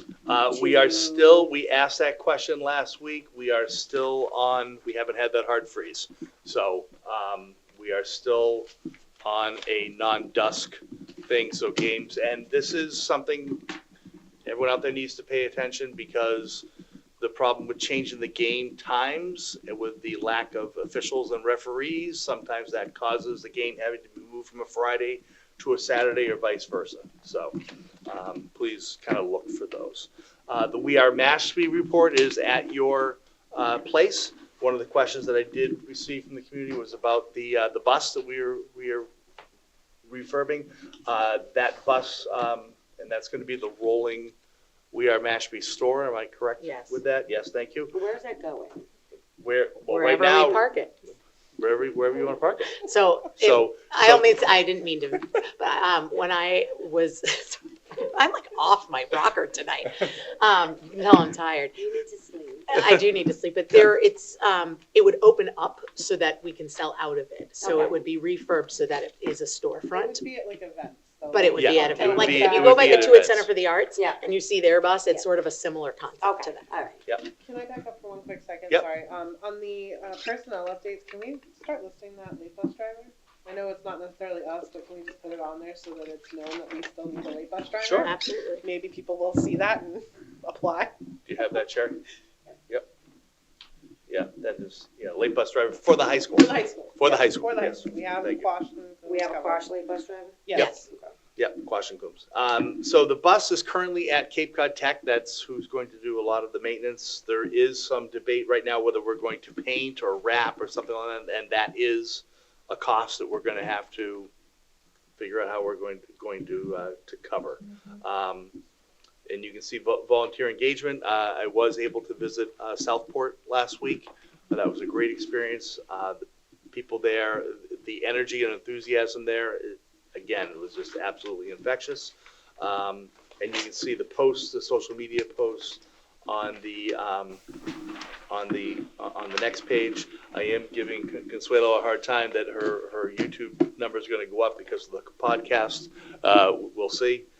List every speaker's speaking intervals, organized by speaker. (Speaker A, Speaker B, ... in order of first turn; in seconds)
Speaker A: 0.2-8.7, 9.2-13.6, 14.4-16.6, 17.2-39.1, 40.0-44.3, 44.9-48.0, 49.4-50.6, 51.6-54.4, 71.5-73.5, 87.8-88.1, 91.2-92.0, 94.1-98.5, 101.4-114.3, 115.2-118.5, 119.3-137.4, 138.3-147.3
Speaker B: 0.5-1.5, 47.9-48.9, 61.8-62.7, 67.6-68.0, 76.2-77.0, 99.0-101.1
Speaker C: 46.6-47.0, 49.9-50.9, 52.8-61.8, 62.7-70.2, 71.3-76.7, 88.0-88.7
Speaker D: 69.9-73.2, 77.4-91.0, 96.3-99.7, 100.5-100.9